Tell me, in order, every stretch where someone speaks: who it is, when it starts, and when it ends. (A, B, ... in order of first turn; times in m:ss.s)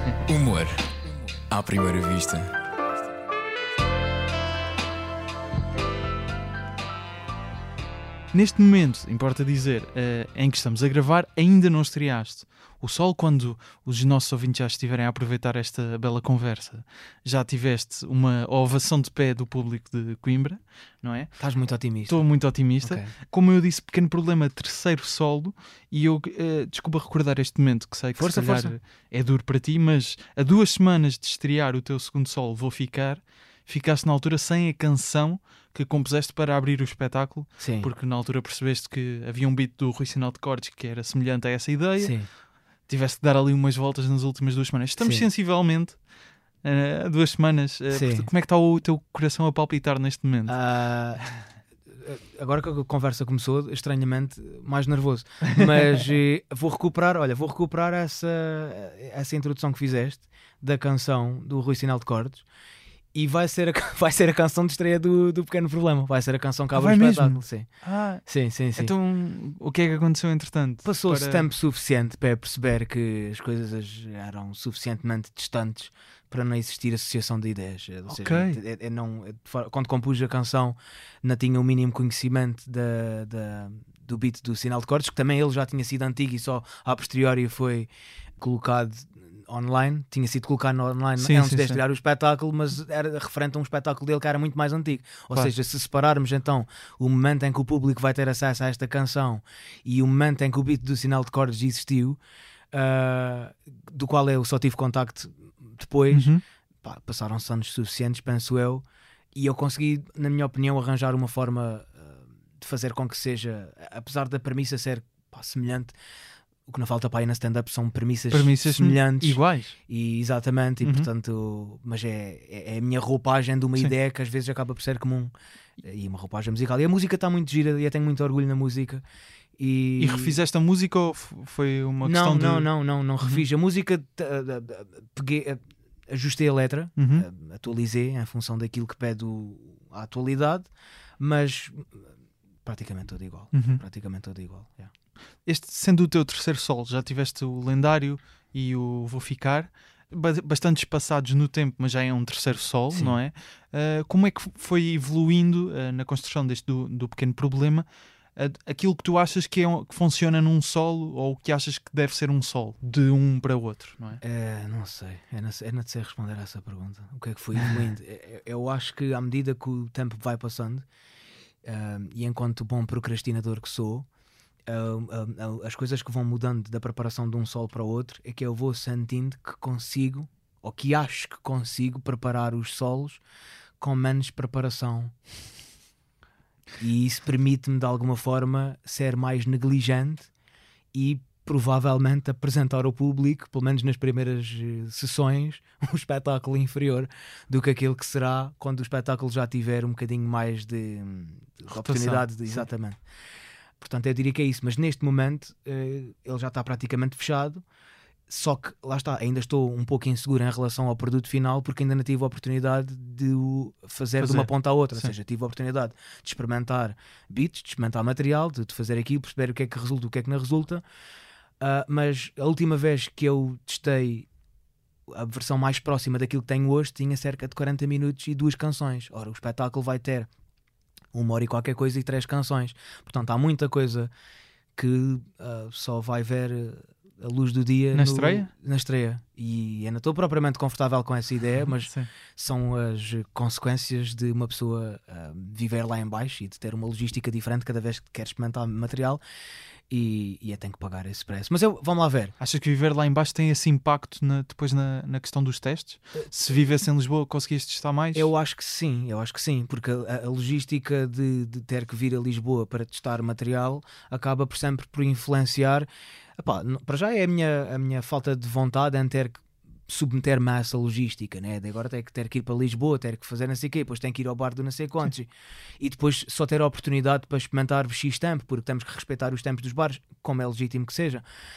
0:00.3-0:02.5 A
0:08.3-0:21.4 B
0:21.4-0:23.1 C
0:22.1-0:46.1 B
0:28.1-0:28.8 C
0:37.6-0:37.9 C
0:42.0-0:42.3 C
0:45.0-0:45.2 C
0:46.6-0:50.6 B
0:47.9-0:48.3 C
0:50.5-0:51.5 C
0:52.0-1:02.4 C
1:03.1-1:08.9 C
1:06.7-1:11.5 B
1:10.8-1:42.2 C
1:18.1-1:18.6 B
1:31.2-1:31.8 B
1:42.7-1:55.9 C
1:46.1-1:46.4 B
1:56.7-2:09.0 C
1:58.3-1:59.8 B
2:00.8-2:01.1 B
2:09.6-2:10.4 C
2:10.0-2:12.7 B
2:12.0-2:22.1 C
2:17.0-2:17.2 B
2:22.6-2:24.9 C
2:23.5-2:23.8 B
2:25.4-2:44.2 B
2:44.2-2:50.8 C
2:51.6-2:54.1 C
2:54.7-3:03.2 C
3:03.8-3:05.1 C
3:06.8-3:10.3 C
3:10.9-3:23.0 C
3:21.7-3:22.6 B
3:23.8-3:27.6 C
3:28.3-3:40.8 C
3:34.2-3:35.1 B
3:41.6-3:44.3 C
3:45.1-3:50.3 C
3:51.1-3:54.1 C
3:54.7-4:09.2 C
3:57.9-3:58.5 B
4:01.8-4:02.1 B
4:09.9-4:12.3 C
4:12.4-4:18.3 B
4:18.1-4:25.9 C
4:26.4-4:41.2 C